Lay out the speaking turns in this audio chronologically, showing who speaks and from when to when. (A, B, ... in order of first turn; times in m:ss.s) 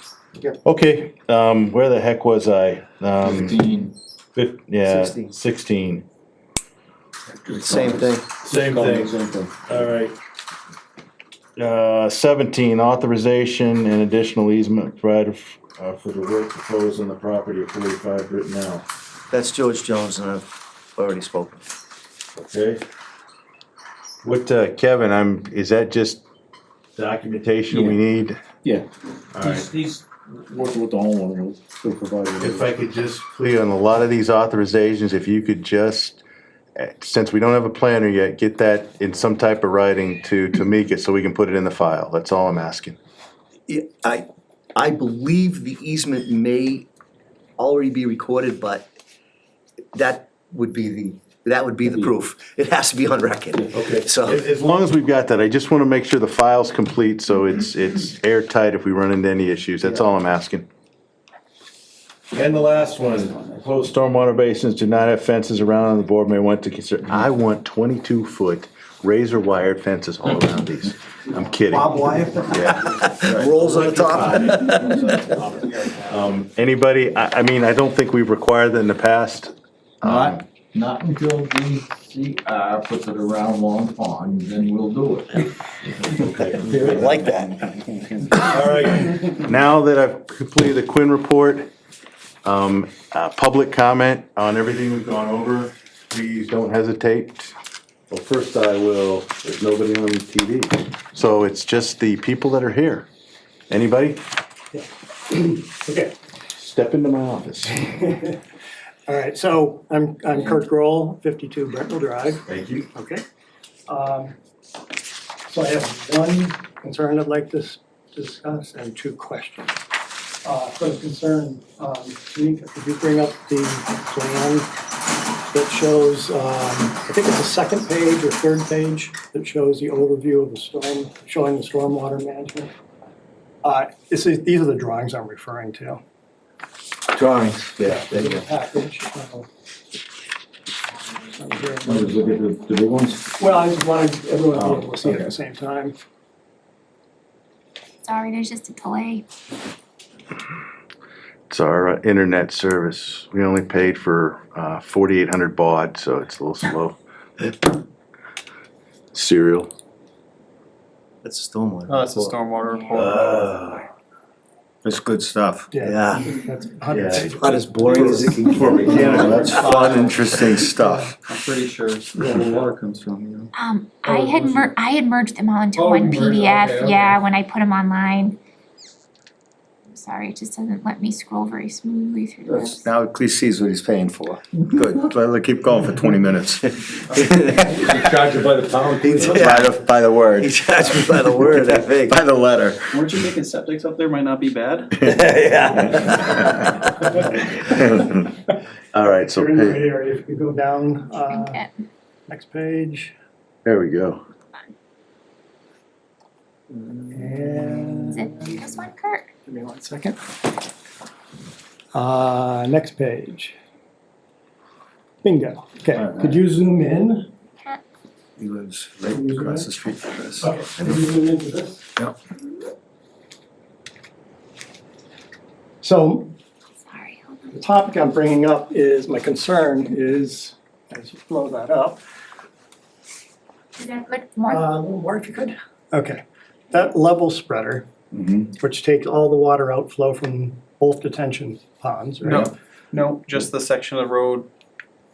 0:00.6-0:03.6 A
0:03.2-0:03.9 B
0:04.3-0:06.0 A
0:04.8-0:05.3 C
0:07.3-0:09.5 B
0:07.6-0:08.3 C
0:08.4-0:10.1 A
0:11.6-0:18.8 A
0:19.3-0:21.6 C
0:22.4-0:22.8 A
0:24.2-0:26.2 A
0:27.0-0:28.4 A
0:27.7-0:28.0 B
0:29.3-0:29.7 A
0:29.4-0:32.7 B
0:32.4-0:36.2 A
0:36.8-0:43.0 A
0:43.7-0:46.8 C
0:47.6-0:48.8 C
0:49.9-0:54.4 C
0:51.8-0:52.1 B
0:53.7-1:00.6 A
1:02.3-1:13.1 A
1:11.7-1:15.3 C
1:13.2-1:15.6 B
1:13.8-1:14.8 A
1:16.0-1:20.4 A
1:20.0-1:25.5 B
1:26.0-1:28.2 B
1:26.1-1:27.1 A
1:26.8-1:27.5 C
1:28.4-1:31.7 A
1:32.4-1:37.5 A
1:38.1-1:43.1 A
1:43.7-1:44.2 A
1:44.7-1:46.1 D
1:46.5-1:47.8 A
1:47.8-1:48.4 D
1:49.1-1:52.4 D
1:52.4-1:52.9 A
1:52.9-1:53.2 D
1:53.9-1:54.3 D
1:55.5-1:59.8 D
2:00.4-2:04.7 D
2:05.5-2:12.7 D
2:13.6-2:16.0 D
2:17.2-2:17.6 C
2:17.8-2:19.5 D
2:21.4-2:22.4 D
2:21.8-2:23.3 B
2:23.4-2:26.0 D
2:24.5-2:25.3 B
2:28.0-2:29.2 E
2:31.5-2:37.0 A
2:39.1-2:39.7 A
2:41.2-2:42.3 C
2:41.9-2:43.4 F
2:42.9-2:43.9 A
2:44.8-2:46.3 C
2:45.7-2:47.7 D
2:46.9-2:47.4 A
2:47.1-2:51.2 C
2:48.0-2:49.6 B
2:48.5-2:49.7 A
2:49.4-2:50.0 F
2:51.3-2:53.5 F
2:52.2-2:52.6 B
2:53.5-2:58.4 E
2:54.2-2:54.6 F
2:55.8-2:57.2 F
2:59.9-3:02.9 E
3:02.5-3:05.8 C
3:06.2-3:06.6 A
3:07.1-3:07.9 C
3:07.7-3:09.6 B
3:09.0-3:12.2 C
3:12.1-3:12.8 A
3:12.9-3:15.0 F
3:15.0-3:16.5 C
3:17.4-3:18.0 D
3:18.9-3:19.9 A
3:19.1-3:21.6 D
3:21.3-3:21.7 E
3:22.3-3:23.1 D
3:23.6-3:24.2 A
3:27.1-3:28.6 D
3:28.1-3:29.3 E
3:29.4-3:30.2 D
3:31.9-3:33.6 D
3:35.2-3:37.3 D
3:38.4-3:40.5 C
3:39.1-3:39.7 D
3:40.4-3:41.9 D
3:45.8-3:46.3 D
3:46.8-3:47.6 E
3:47.5-3:52.0 D
3:53.8-3:54.6 E
3:54.5-3:57.9 D
3:58.1-3:58.4 B
3:58.5-4:02.5 D
4:02.2-4:04.5 F